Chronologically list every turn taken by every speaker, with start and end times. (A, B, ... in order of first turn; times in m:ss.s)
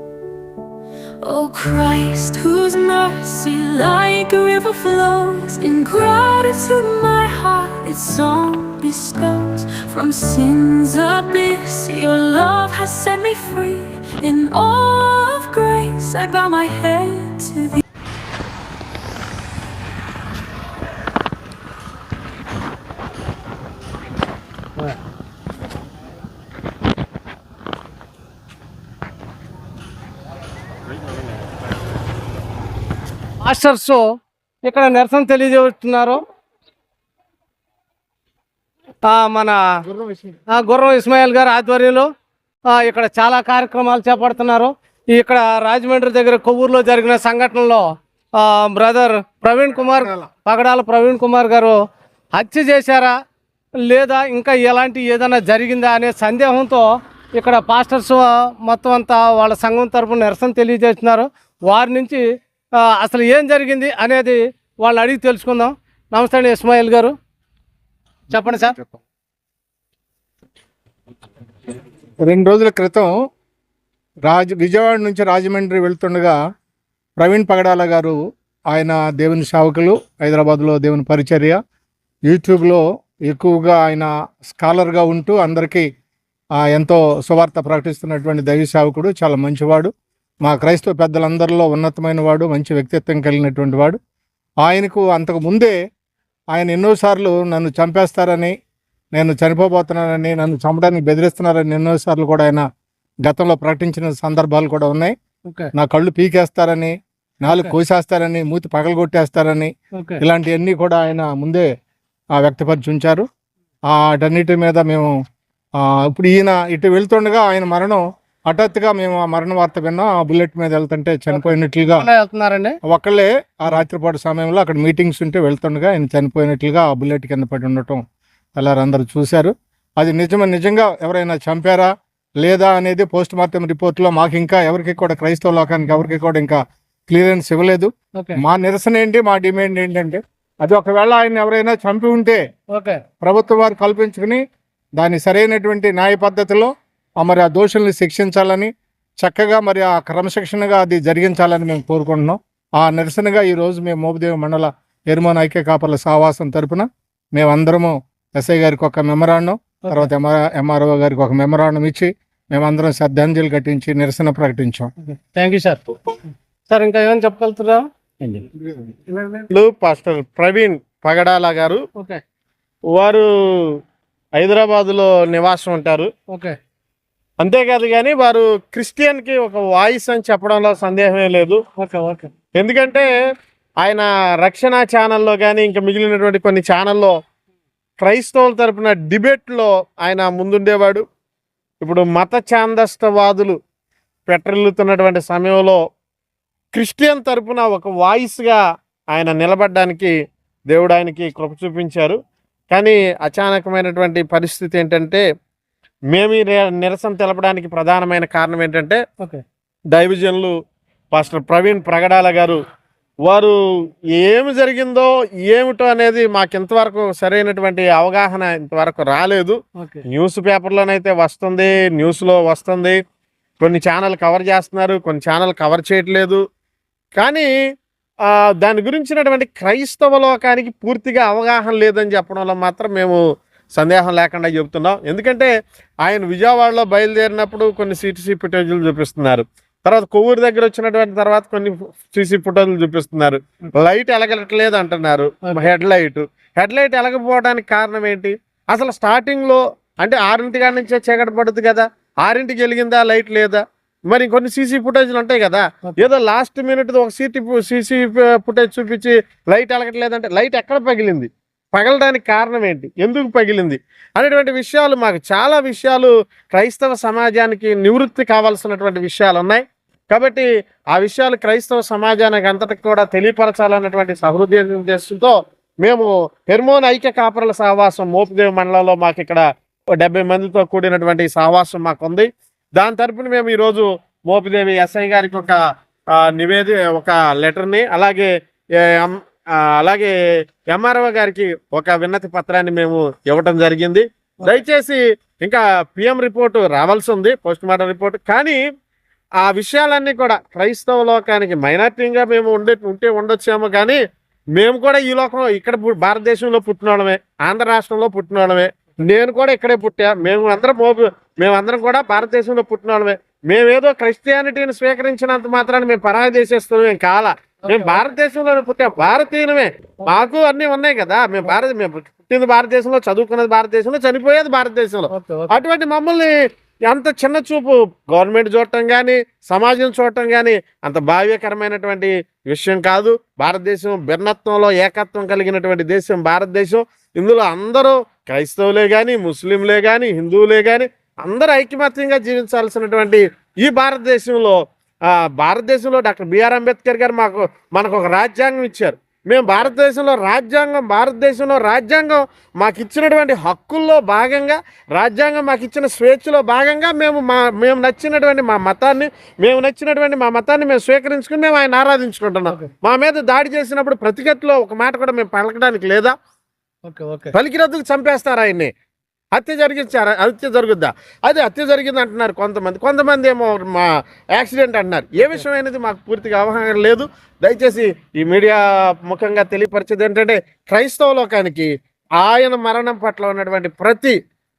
0:01.2-0:17.8 A
0:33.4-0:34.0 B
0:34.6-0:36.2 B
0:39.1-0:39.6 B
0:39.9-0:40.3 C
0:40.5-0:42.1 B
0:42.7-0:47.8 B
0:48.4-0:51.8 B
0:52.4-0:53.1 B
0:53.8-1:02.2 B
1:02.8-1:07.1 B
1:08.3-1:08.9 B
1:12.2-1:13.1 C
1:14.2-1:16.4 C
1:17.2-1:18.2 C
1:18.7-1:21.6 C
1:22.3-1:25.9 C
1:26.6-1:29.9 C
1:30.4-1:34.0 C
1:34.6-1:35.8 C
1:36.5-1:38.5 C
1:39.1-1:42.6 C
1:43.2-1:45.1 C
1:45.5-1:45.7 B
1:45.8-1:51.7 C
1:50.0-1:50.2 B
1:52.4-1:53.3 C
1:53.9-1:55.1 C
1:55.8-2:02.1 C
2:01.3-2:02.8 B
2:02.9-2:08.0 C
2:08.6-2:11.9 C
2:12.4-2:22.4 C
2:22.7-2:23.0 B
2:23.2-2:24.4 C
2:25.0-2:44.9 C
2:39.8-2:40.1 B
2:45.0-2:45.8 B
2:46.7-2:47.8 B
2:49.1-2:49.4 B
2:49.5-2:51.8 D
2:52.0-2:52.2 B
2:52.9-2:53.8 D
2:54.4-2:56.1 D
2:57.4-3:01.6 D
3:01.8-3:02.3 B
3:02.6-3:03.1 D
3:03.8-3:07.1 D
3:08.0-3:11.0 D
3:11.8-3:13.6 D
3:14.3-3:15.8 D
3:16.7-3:18.6 D
3:19.1-3:20.1 D
3:20.7-3:22.2 D
3:22.7-3:25.2 D
3:26.1-3:29.0 D
3:29.9-3:30.5 D
3:31.1-3:32.6 D
3:33.2-3:33.6 D
3:34.1-3:39.6 D
3:39.8-3:40.0 B
3:40.1-3:43.0 D
3:43.6-3:46.4 D
3:47.2-3:47.5 D
3:48.2-3:53.2 D
3:53.8-4:39.4 D
4:40.0-4:45.6 D
4:46.1-4:48.3 D
4:48.8-4:50.1 D
4:50.7-4:58.6 D
4:59.4-5:04.0 D
5:04.6-5:26.3 D
5:17.6-5:18.0 B
5:25.1-5:25.5 B
5:26.9-6:06.1 D
6:06.8-6:07.3 B
6:07.3-6:08.7 D
6:09.3-6:24.2 D